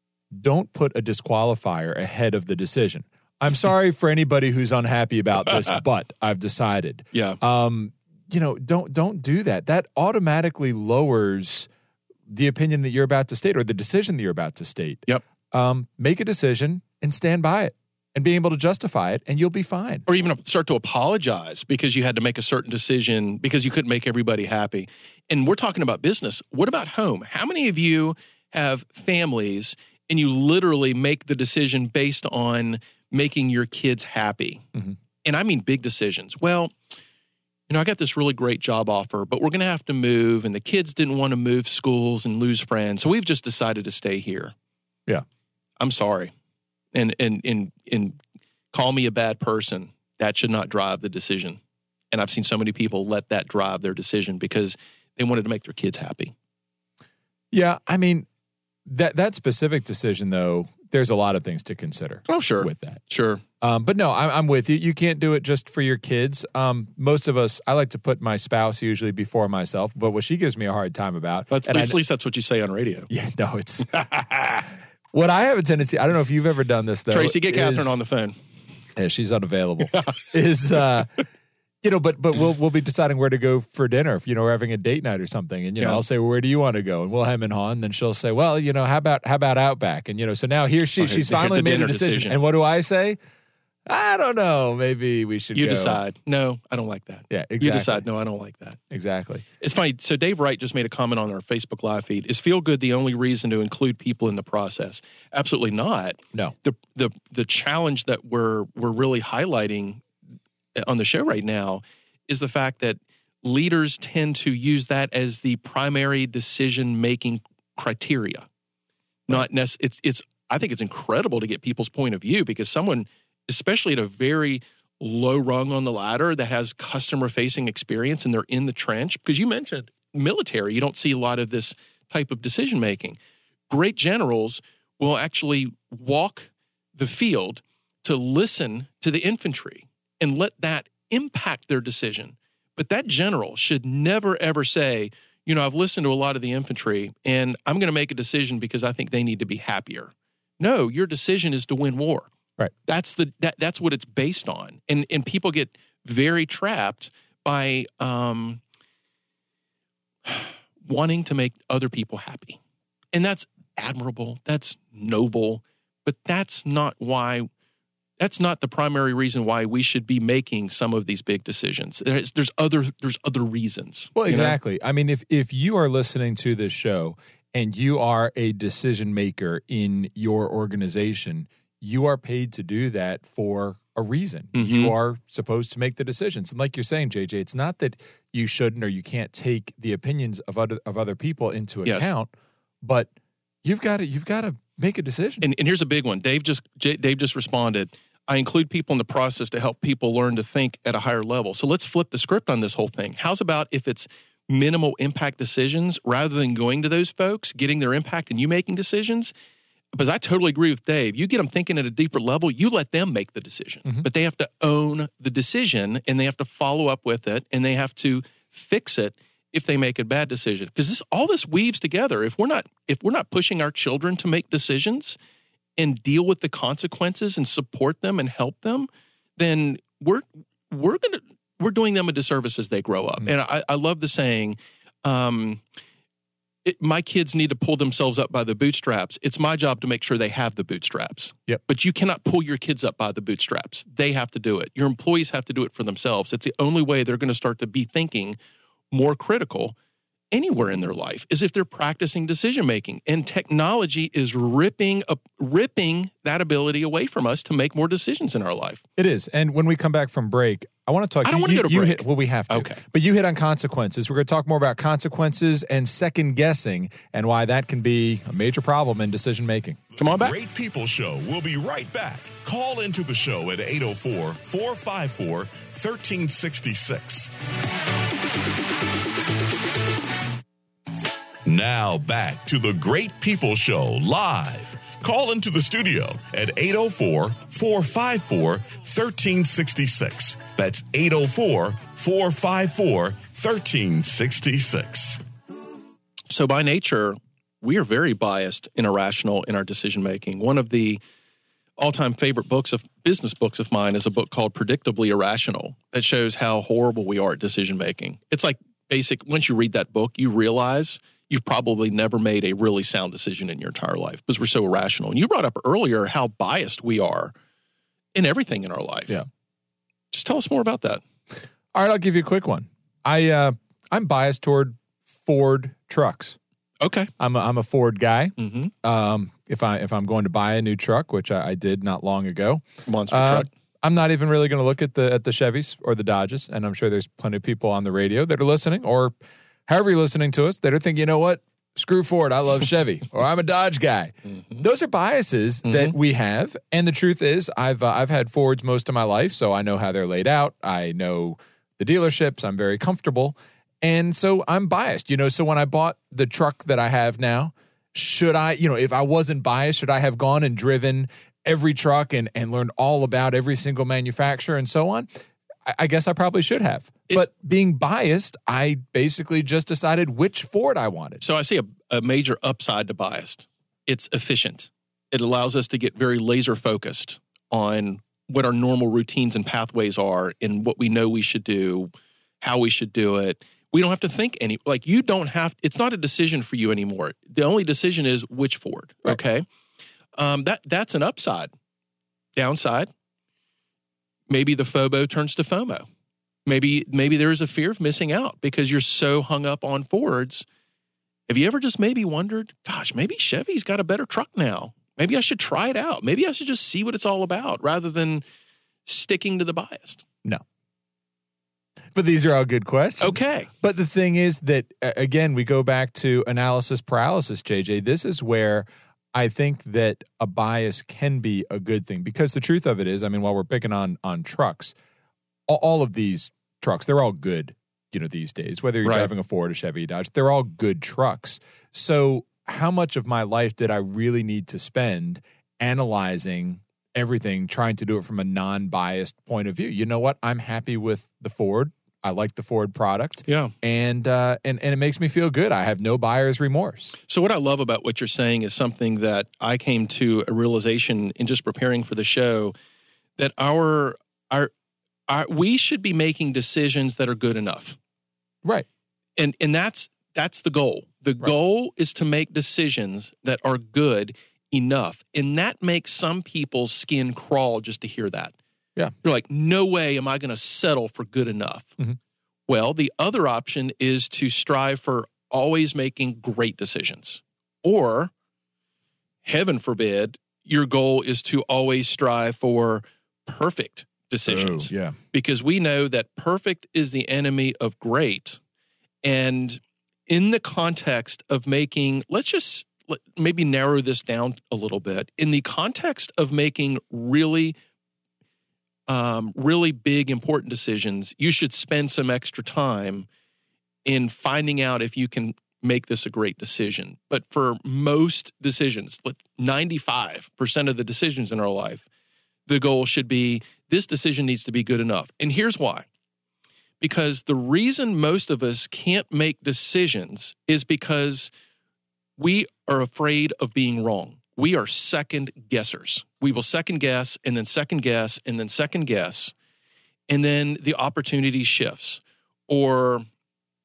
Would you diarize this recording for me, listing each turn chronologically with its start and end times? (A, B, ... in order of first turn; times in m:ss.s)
0:00.3-0:11.7 A
0:07.1-0:07.4 B
0:12.3-0:20.0 A
0:20.1-0:34.7 B
0:35.2-0:36.7 B
0:37.7-0:44.5 B
0:45.8-0:46.3 B
0:46.9-0:48.2 B
0:48.7-0:51.6 B
0:52.1-0:56.3 B
0:57.5-0:58.3 A
0:58.9-1:03.0 A
1:02.3-1:03.4 B
1:03.6-1:12.0 A
1:11.5-1:13.1 B
1:13.1-1:18.0 A
1:17.1-1:18.4 B
1:19.0-1:21.2 A
1:21.8-1:33.2 A
1:31.0-1:32.4 B
1:33.9-1:36.0 A
1:35.5-1:38.8 B
1:37.3-1:38.0 A
1:38.9-1:39.4 A
1:39.6-1:50.1 B
1:50.8-1:58.5 B
1:59.3-2:13.2 B
2:13.7-2:32.3 B
2:32.9-2:38.6 B
2:40.2-2:42.6 B
2:43.1-2:47.5 B
2:48.2-2:54.6 B
2:54.2-3:12.3 A
3:04.5-3:04.9 B
3:12.8-3:13.1 A
3:13.6-3:15.4 A
3:15.4-3:29.3 B
3:29.9-3:45.2 B
3:45.8-3:55.6 B
3:56.6-4:08.4 B
4:08.9-4:09.8 B
4:10.3-4:18.8 B
4:19.0-4:29.8 A
4:21.2-4:22.8 B
4:30.0-4:30.3 B
4:30.0-4:37.3 C
4:41.4-4:55.2 C
4:56.3-5:01.0 B
5:01.8-5:17.3 B
5:18.2-5:19.2 B
5:20.1-5:21.0 B
5:21.7-5:26.4 A
5:26.8-5:27.1 B
5:27.2-5:39.2 A
5:28.4-5:28.7 B
5:32.9-5:33.5 B
5:39.7-6:11.2 A
5:45.6-5:45.9 B
6:11.2-6:29.5 B
6:30.2-6:31.5 B
6:32.4-6:32.9 B
6:34.3-6:35.9 B
6:36.5-6:40.5 B
6:41.3-6:48.2 B
6:48.9-6:50.0 B
6:52.0-7:04.8 A
6:53.0-6:53.5 B
7:05.5-7:27.0 A
7:08.8-7:09.1 B
7:23.2-7:23.5 B
7:27.1-7:32.5 B
7:33.2-7:34.5 B
7:35.1-7:37.8 B
7:39.2-7:48.4 B
7:49.0-7:51.8 B
7:52.5-7:58.1 B
7:59.2-8:08.4 B
8:04.3-8:05.0 A
8:09.0-8:17.6 B
8:18.9-8:23.1 B
8:23.8-8:31.9 B
8:32.5-8:35.9 B
8:36.8-8:41.3 B
8:42.2-8:49.3 B
8:50.1-8:53.1 B